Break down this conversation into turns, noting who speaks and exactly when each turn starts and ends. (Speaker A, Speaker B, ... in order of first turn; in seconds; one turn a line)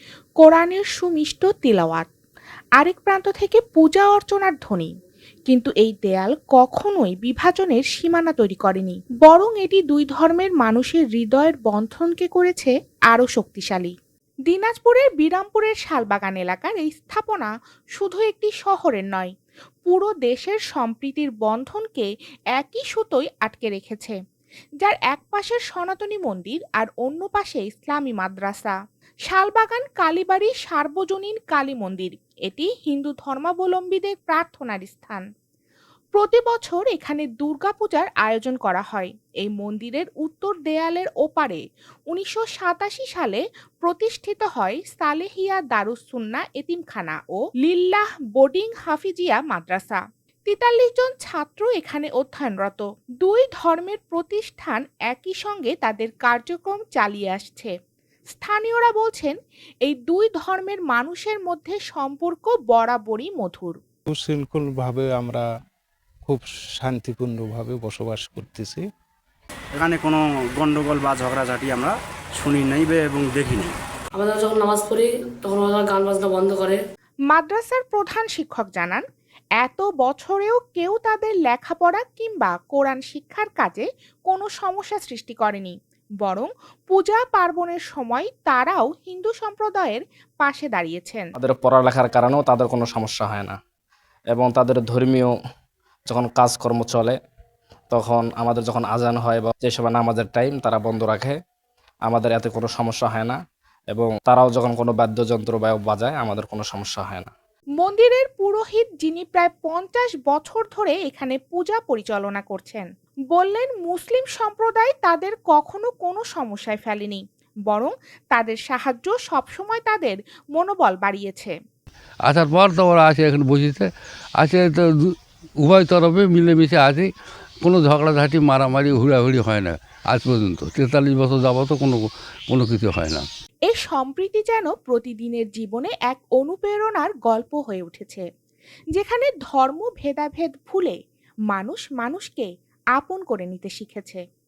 Speaker A: 0.4-2.1
Speaker A: 2.8-4.9
Speaker A: 5.5-13.9
Speaker A: 14.5-19.3
Speaker A: 19.9-24.2
Speaker A: 24.8-28.8
Speaker A: 29.3-35.2
Speaker A: 36.1-57.7
Speaker A: 58.3-63.8
Speaker B: 64.1-65.5
Speaker B: 66.3-68.8
Speaker C: 69.7-73.8
Speaker D: 74.1-76.8
Speaker A: 77.3-79.0
Speaker A: 79.6-91.3
Speaker E: 91.4-93.5
Speaker E: 94.3-95.3
Speaker E: 96.1-97.2
Speaker E: 97.9-101.4
Speaker E: 102.1-103.4
Speaker E: 103.9-107.3
Speaker A: 107.8-121.5
Speaker F: 122.2-123.9
Speaker F: 124.4-127.1
Speaker F: 127.6-133.2
Speaker A: 133.7-138.2
Speaker A: 138.9-141.0
Speaker A: 141.5-144.2